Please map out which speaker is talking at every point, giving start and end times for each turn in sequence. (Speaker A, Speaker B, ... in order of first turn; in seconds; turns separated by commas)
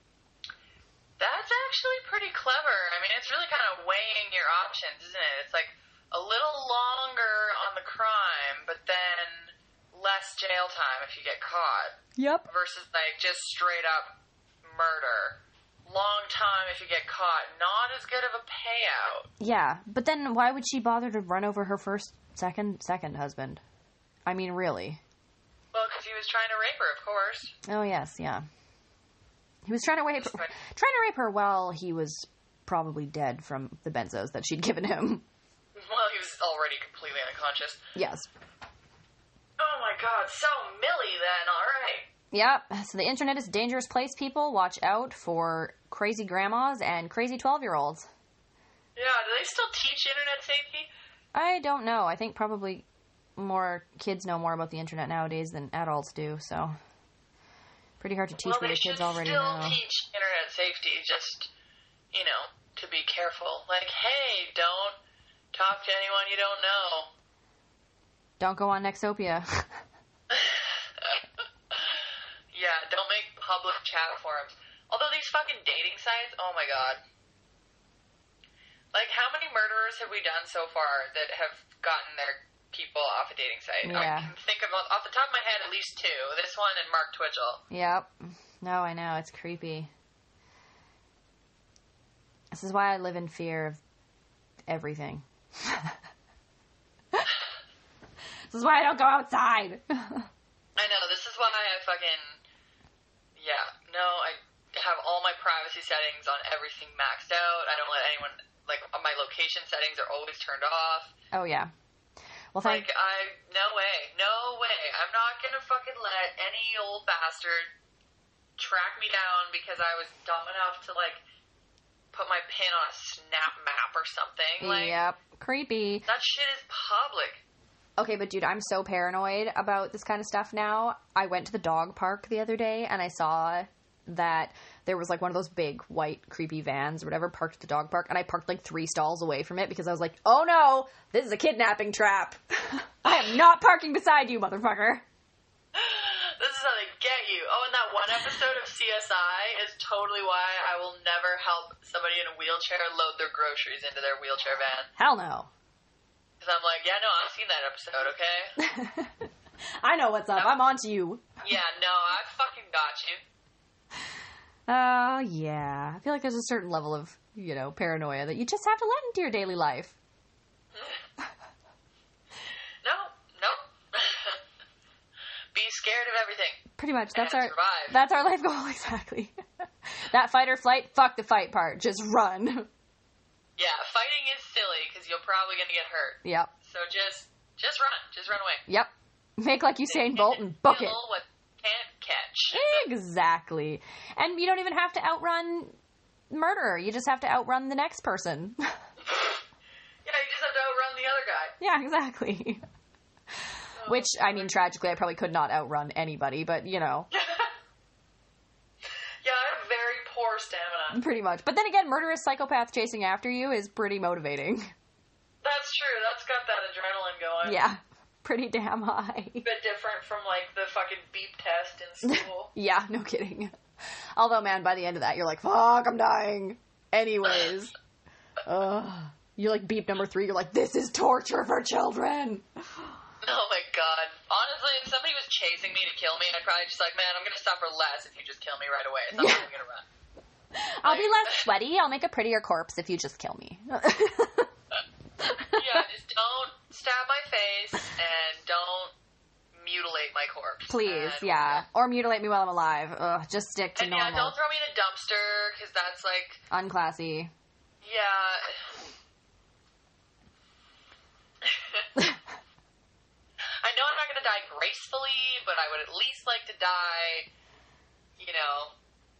Speaker A: 1.2-19.3, Speaker B: 12.2-12.5, Speaker B: 19.4-23.6, Speaker B: 24.3-25.0, Speaker A: 25.7-27.5, Speaker B: 27.7-28.4, Speaker B: 29.6-35.2, Speaker A: 30.2-30.5, Speaker A: 35.7-37.8, Speaker B: 38.0-38.3, Speaker A: 39.6-42.1, Speaker B: 42.3-48.1, Speaker A: 49.0-50.9, Speaker B: 51.4-52.9, Speaker B: 53.4-56.7, Speaker B: 58.0-59.8, Speaker A: 58.4-61.5, Speaker A: 62.1-65.0, Speaker A: 65.5-67.1, Speaker B: 68.4-69.8, Speaker A: 70.3-77.0, Speaker A: 78.9-87.6, Speaker B: 83.8-84.3, Speaker B: 87.7-89.9, Speaker B: 92.5-93.8, Speaker B: 94.7-96.0, Speaker B: 98.5-100.3, Speaker A: 100.8-102.4, Speaker A: 103.4-111.1, Speaker B: 111.3-111.7, Speaker B: 112.5-112.9, Speaker A: 112.6-117.7, Speaker A: 118.6-121.2, Speaker A: 122.1-125.0, Speaker B: 124.6-126.0, Speaker A: 126.1-127.4, Speaker B: 128.0-145.0, Speaker A: 145.7-154.9, Speaker B: 155.0-155.5, Speaker A: 156.4-158.5, Speaker B: 158.6-159.3, Speaker B: 159.8-161.3, Speaker A: 161.4-163.2, Speaker B: 164.7-169.9, Speaker A: 170.7-171.0, Speaker A: 172.8-174.4, Speaker A: 175.5-176.6, Speaker B: 176.8-182.7, Speaker A: 177.1-178.0, Speaker A: 183.6-188.6, Speaker B: 186.2-186.5, Speaker B: 188.7-191.0, Speaker A: 189.9-192.9, Speaker B: 192.5-195.8, Speaker B: 196.3-198.7, Speaker A: 199.1-199.4, Speaker A: 200.1-201.6, Speaker B: 201.6-202.6, Speaker A: 203.8-204.6, Speaker B: 203.9-207.1, Speaker A: 207.1-207.5, Speaker A: 209.2-211.0, Speaker B: 210.9-214.7, Speaker A: 215.4-217.6, Speaker B: 217.4-219.4, Speaker A: 219.4-222.5, Speaker B: 222.0-223.5, Speaker B: 224.2-227.7, Speaker B: 228.4-232.4, Speaker A: 233.2-239.8, Speaker B: 239.1-239.4, Speaker B: 240.5-244.5, Speaker A: 240.8-241.5, Speaker B: 245.2-245.8, Speaker A: 245.5-248.9, Speaker A: 249.6-251.6, Speaker B: 250.7-254.3, Speaker A: 253.8-256.4, Speaker B: 256.5-257.3, Speaker A: 257.8-258.8, Speaker A: 261.4-261.9, Speaker A: 263.6-267.3, Speaker A: 268.2-268.7